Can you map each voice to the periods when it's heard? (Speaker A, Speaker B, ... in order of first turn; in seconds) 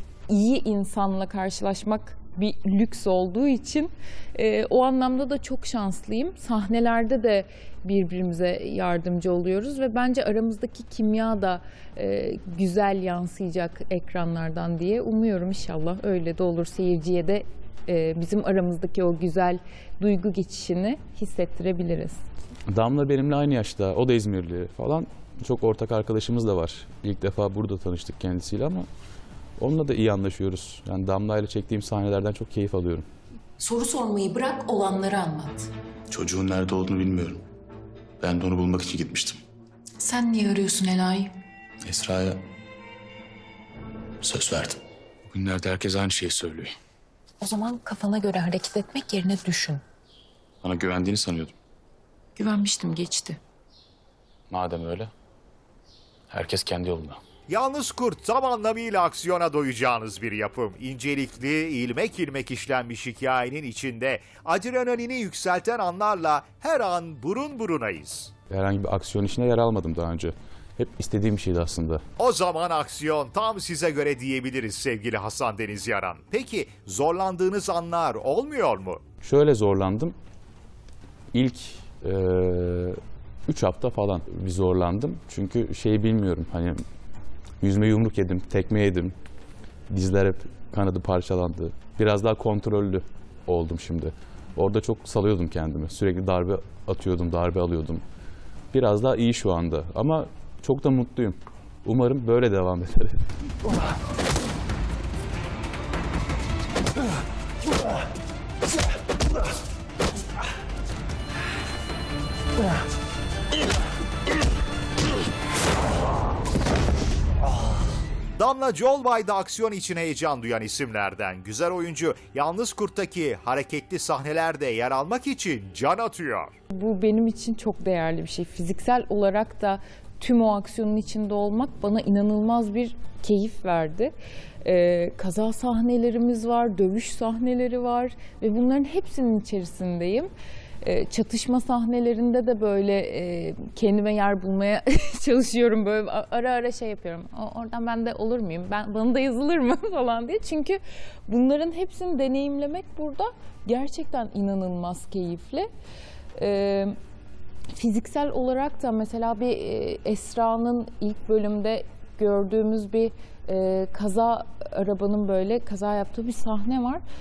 Speaker A: 0.3-22.2, 126.7-140.3, 140.8-155.7, 156.3-156.9, 157.7-167.0
Speaker B: 22.7-28.9, 29.6-33.1, 54.5-55.1, 56.3-57.2, 68.5-72.0, 79.2-80.1, 81.3-86.8, 87.6-89.1, 89.9-98.0, 98.7-103.2
Speaker C: 33.6-35.7, 40.0-41.3, 47.4-49.8, 52.4-53.4
Speaker D: 36.1-37.4, 38.2-39.4, 41.9-42.4, 44.2-44.8, 45.3-46.7, 50.6-51.5, 54.6-55.0, 56.3-57.1
Speaker E: 57.5-68.3, 72.2-79.0, 118.4-126.5